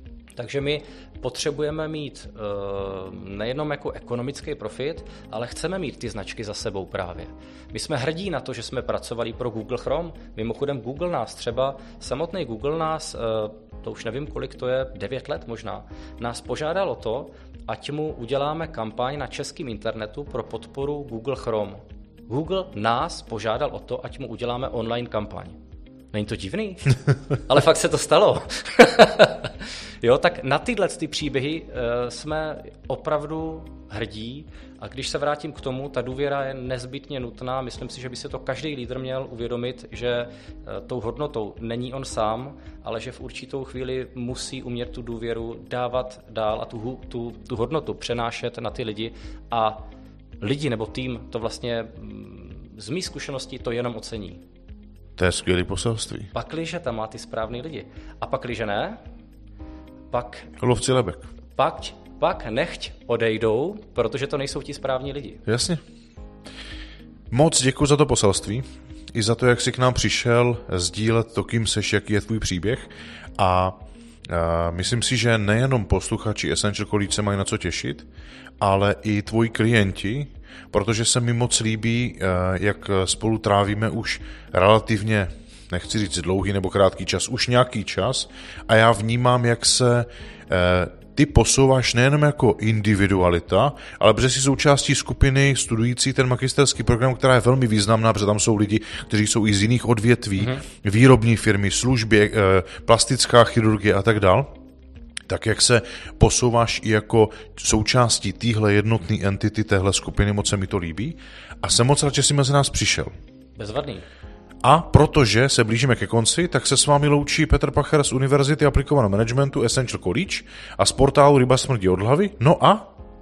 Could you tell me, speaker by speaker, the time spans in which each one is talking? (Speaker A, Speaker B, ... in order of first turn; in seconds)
Speaker A: 0.4-25.6, 26.1-49.8, 50.4-54.4, 56.3-59.0, 60.1-60.5, 61.5-65.4, 100.4-100.6, 113.6-114.0
Speaker B: 55.2-56.3, 60.6-61.3, 65.5-65.8, 67.3-78.1, 78.6-104.5, 105.3-113.1, 114.6-122.9